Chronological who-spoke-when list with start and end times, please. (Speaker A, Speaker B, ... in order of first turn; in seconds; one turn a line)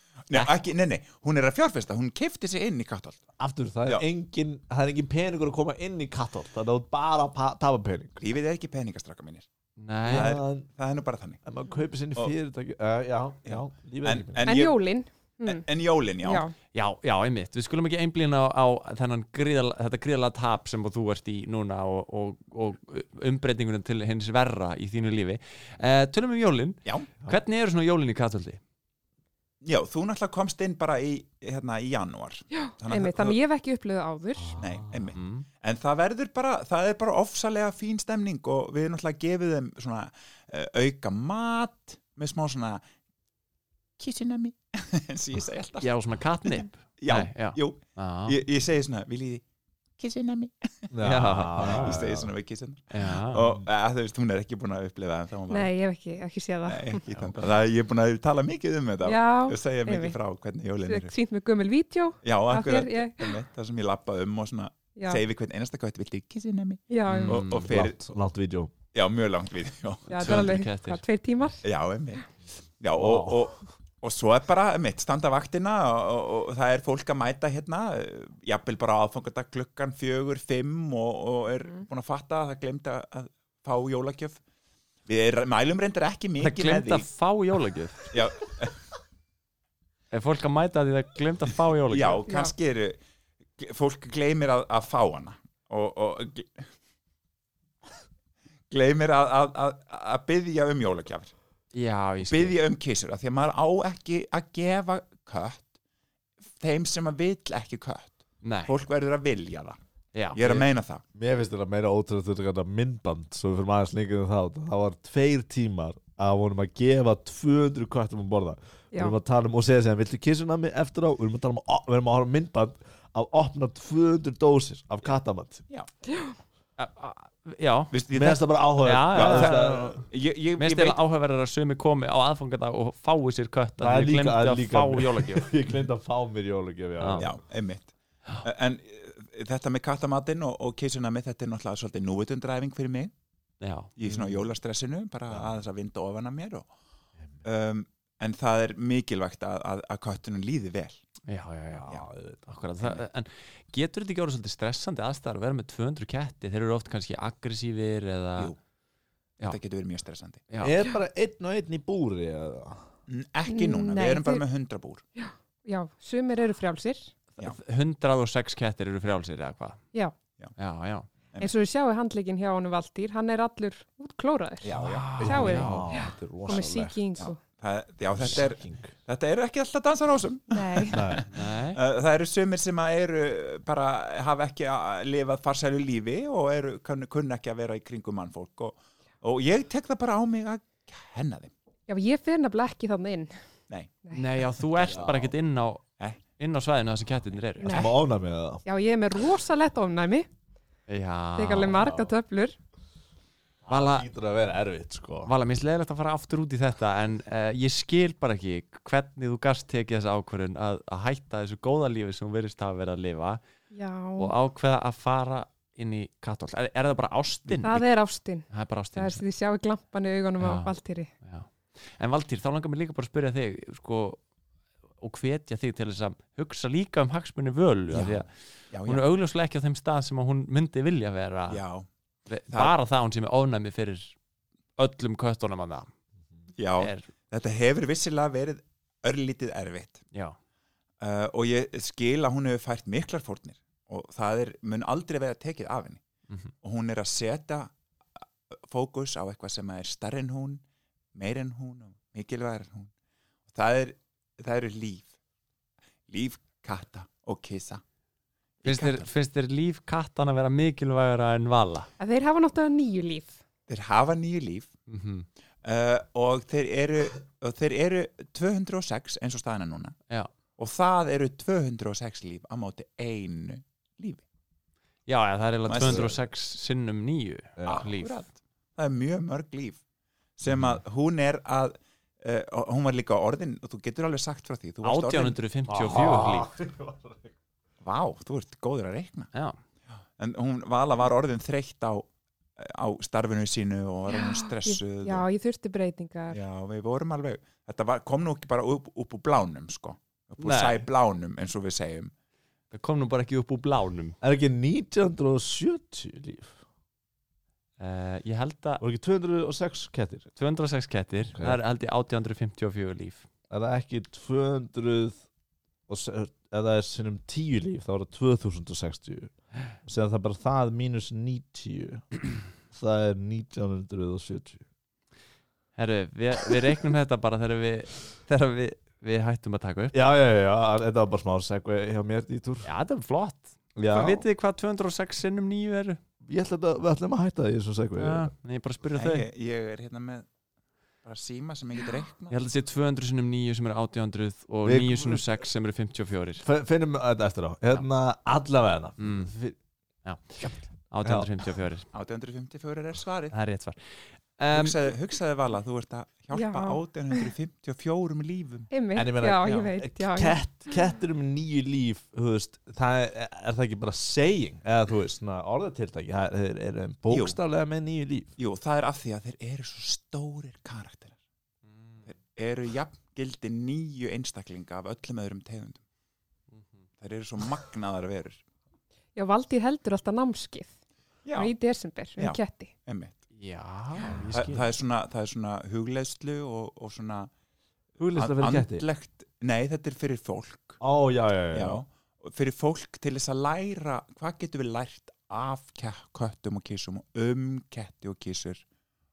Speaker A: 0.3-3.2
Speaker B: 3.4-8.2
Speaker A: 8.2-9.5
Speaker C: 9.8-10.3
Speaker B: 10.1-10.7
Speaker A: 10.1-11.4
Speaker B: 11.4-14.6
Speaker A: 13.4-14.8
Speaker D: 14.4-15.6
Speaker A: 15.4-16.5
Speaker D: 16.2-16.5
Speaker C: 16.7-28.6
Speaker A: 29.6-33.4
Speaker D: 32.5-34.6
Speaker B: 34.4-35.1
Speaker A: 34.6-42.8
Speaker C: 35.1-35.5
Speaker A: 44.0-45.9
Speaker C: 45.8-48.4
Speaker A: 46.5-49.4
Speaker A: 50.0-50.5
Speaker B: 50.9-52.3
Speaker C: 51.0-52.0
Speaker A: 51.6-55.7
Speaker C: 52.9-53.5
Speaker D: 55.5-57.0
Speaker A: 56.7-61.1
Speaker D: 59.0-60.2
Speaker D: 60.8-63.3
Speaker A: 62.2-68.0
Speaker D: 65.0-65.2
Speaker D: 66.9-67.4
Speaker C: 67.1-67.7
Speaker B: 67.6-68.7
Speaker A: 68.9-70.6
Speaker D: 70.1-71.6
Speaker C: 70.1-71.0
Speaker A: 71.6-72.3
Speaker A: 72.8-84.4
Speaker B: 72.9-73.5
Speaker A: 85.1-87.1
Speaker C: 86.4-88.2
Speaker A: 88.1-88.7
Speaker C: 90.1-92.3
Speaker A: 91.9-93.0
Speaker D: 92.3-92.5
Speaker A: 93.6-96.6
Speaker A: 98.7-101.3
Speaker C: 101.7-102.5
Speaker A: 102.2-105.7
Speaker A: 106.6-109.8
Speaker C: 108.4-108.7
Speaker C: 110.1-110.7
Speaker A: 110.3-111.0
Speaker B: 111.1-125.6
Speaker D: 126.1-126.3
Speaker C: 126.8-127.9
Speaker A: 127.9-128.4
Speaker B: 128.1-130.0
Speaker C: 128.8-130.0
Speaker A: 129.1-131.0
Speaker C: 130.6-135.6
Speaker B: 133.8-137.4
Speaker A: 137.2-143.1
Speaker C: 143.6-143.9
Speaker A: 144.0-146.7
Speaker B: 144.1-144.4
Speaker B: 145.3-145.6
Speaker A: 147.4-151.0
Speaker C: 151.3-158.5
Speaker B: 151.8-152.5
Speaker A: 159.4-160.4
Speaker C: 160.5-160.8
Speaker B: 160.6-162.8
Speaker A: 163.1-165.0
Speaker D: 163.5-164.4
Speaker D: 165.2-167.1
Speaker C: 167.4-169.8
Speaker C: 170.6-171.1
Speaker D: 171.4-177.4
Speaker A: 174.6-175.2
Speaker C: 174.7-176.1
Speaker B: 175.2-177.0
Speaker A: 177.2-191.5
Speaker B: 178.1-178.9
Speaker D: 180.5-181.0
Speaker B: 180.9-181.2
Speaker C: 181.3-181.8
Speaker D: 191.9-193.3
Speaker A: 193.7-193.9
Speaker C: 194.1-195.8
Speaker B: 194.8-195.3
Speaker A: 194.8-195.1
Speaker C: 196.4-197.7
Speaker D: 197.6-197.9
Speaker B: 197.6-198.6
Speaker D: 198.6-200.3
Speaker C: 200.9-202.0
Speaker D: 201.3-202.6
Speaker B: 203.7-205.3
Speaker C: 203.7-204.1
Speaker C: 205.2-213.4
Speaker D: 213.7-214.3
Speaker C: 214.2-217.8
Speaker D: 217.6-221.1
Speaker C: 218.4-219.2
Speaker C: 220.4-220.7
Speaker C: 221.2-224.2
Speaker C: 225.0-231.6
Speaker A: 227.9-229.0
Speaker A: 231.5-231.9
Speaker C: 232.3-234.1
Speaker A: 232.5-232.7
Speaker C: 234.8-235.9
Speaker A: 236.6-240.0
Speaker C: 236.8-237.1
Speaker A: 241.0-246.0
Speaker A: 246.6-247.7
Speaker A: 248.7-250.6
Speaker A: 251.1-252.9
Speaker A: 253.5-255.1
Speaker A: 256.1-257.8
Speaker A: 258.6-259.1
Speaker C: 258.6-261.9
Speaker D: 262.0-263.4
Speaker A: 263.7-264.7
Speaker C: 264.9-265.3
Speaker A: 265.6-269.9
Speaker A: 270.6-274.2
Speaker C: 275.1-278.2
Speaker A: 275.6-276.2
Speaker B: 275.8-276.1
Speaker B: 277.6-277.8
Speaker A: 277.6-279.8
Speaker A: 280.4-285.4
Speaker C: 284.8-286.5
Speaker B: 285.9-287.3
Speaker A: 285.9-286.2
Speaker A: 287.8-289.3
Speaker A: 290.2-292.1
Speaker A: 292.6-295.2
Speaker D: 294.1-296.4
Speaker A: 296.3-302.1
Speaker C: 300.4-300.9
Speaker C: 302.7-304.1
Speaker B: 304.2-306.6
Speaker C: 307.8-308.8
Speaker B: 308.8-310.3
Speaker C: 310.4-313.2
Speaker B: 313.5-315.2
Speaker B: 315.9-319.3
Speaker B: 319.8-322.1
Speaker B: 322.7-324.6
Speaker C: 325.8-329.9
Speaker B: 329.9-332.7
Speaker C: 332.6-336.0
Speaker B: 333.8-334.2
Speaker B: 336.2-338.3
Speaker C: 338.0-339.2
Speaker A: 339.0-340.2
Speaker A: 341.0-342.4
Speaker C: 342.3-346.4
Speaker B: 344.6-345.2
Speaker B: 346.4-349.6
Speaker C: 349.0-349.3
Speaker C: 350.0-351.9
Speaker B: 350.4-351.3
Speaker A: 351.9-353.4
Speaker C: 353.3-353.8
Speaker C: 354.4-354.8
Speaker A: 354.5-358.7
Speaker D: 356.3-357.3
Speaker D: 358.7-360.8
Speaker B: 358.9-368.3
Speaker A: 367.1-367.4
Speaker A: 368.4-371.1
Speaker C: 371.6-372.1
Speaker A: 372.1-375.8
Speaker A: 377.0-378.4
Speaker D: 379.1-380.7
Speaker A: 381.2-381.5
Speaker D: 381.3-382.7
Speaker A: 382.2-383.1
Speaker C: 383.4-384.6
Speaker A: 384.3-387.3
Speaker B: 388.0-388.8
Speaker A: 388.1-390.8
Speaker B: 390.8-391.8
Speaker A: 391.5-398.6